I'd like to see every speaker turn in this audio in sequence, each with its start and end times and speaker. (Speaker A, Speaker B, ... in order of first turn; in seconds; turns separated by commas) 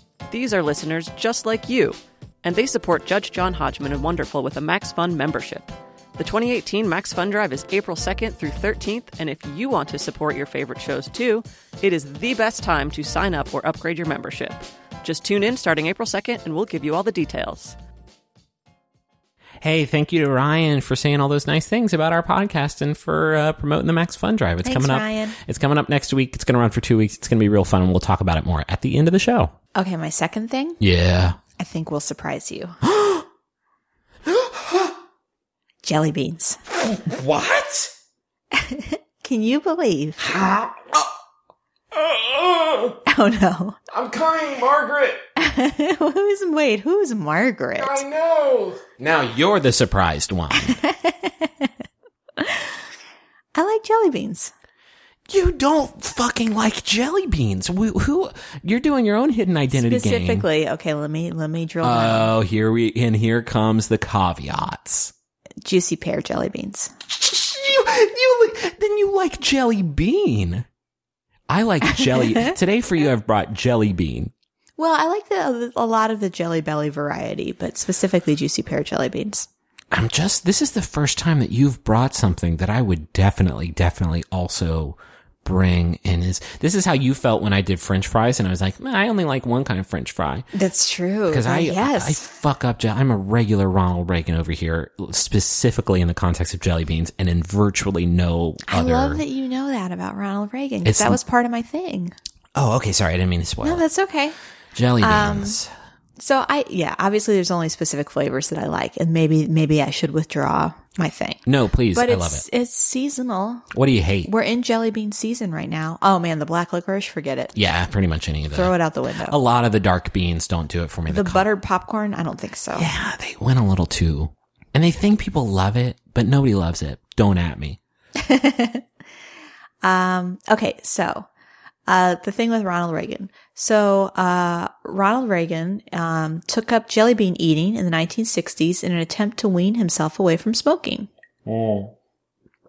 Speaker A: 0.3-17.8, Speaker B: 19.6-29.5, Speaker C: 24.6-25.4, Speaker C: 29.8-30.8, Speaker B: 30.8-31.4, Speaker C: 31.6-32.8, Speaker B: 32.8-33.2, Speaker B: 34.2-34.9, Speaker C: 35.8-36.6, Speaker B: 36.8-37.9, Speaker C: 38.5-40.2, Speaker B: 40.2-41.1, Speaker B: 41.9-43.0, Speaker C: 43.1-43.8, Speaker B: 43.9-45.2, Speaker C: 45.4-48.0, Speaker B: 47.8-50.8, Speaker C: 50.5-51.7, Speaker C: 52.4-52.7, Speaker C: 53.5-54.5, Speaker B: 55.3-60.5, Speaker C: 59.7-62.3, Speaker B: 61.8-65.1, Speaker C: 65.6-66.9, Speaker B: 67.1-70.7, Speaker B: 71.5-74.3, Speaker C: 74.8-79.5, Speaker B: 79.9-90.5, Speaker C: 90.5-92.2, Speaker B: 91.3-99.2, Speaker C: 98.7-102.1, Speaker B: 100.8-101.2, Speaker B: 102.5-103.8, Speaker C: 103.6-104.3, Speaker B: 104.7-105.7, Speaker C: 105.0-105.6, Speaker C: 106.2-111.4, Speaker B: 111.5-112.4, Speaker C: 111.9-113.7, Speaker B: 113.7-114.3, Speaker C: 114.2-117.6, Speaker B: 117.5-118.7, Speaker C: 118.5-119.4, Speaker B: 119.2-121.5, Speaker C: 121.1-122.9, Speaker B: 122.7-127.8, Speaker C: 128.2-128.8, Speaker C: 129.8-131.3, Speaker C: 131.9-141.1, Speaker B: 141.4-141.9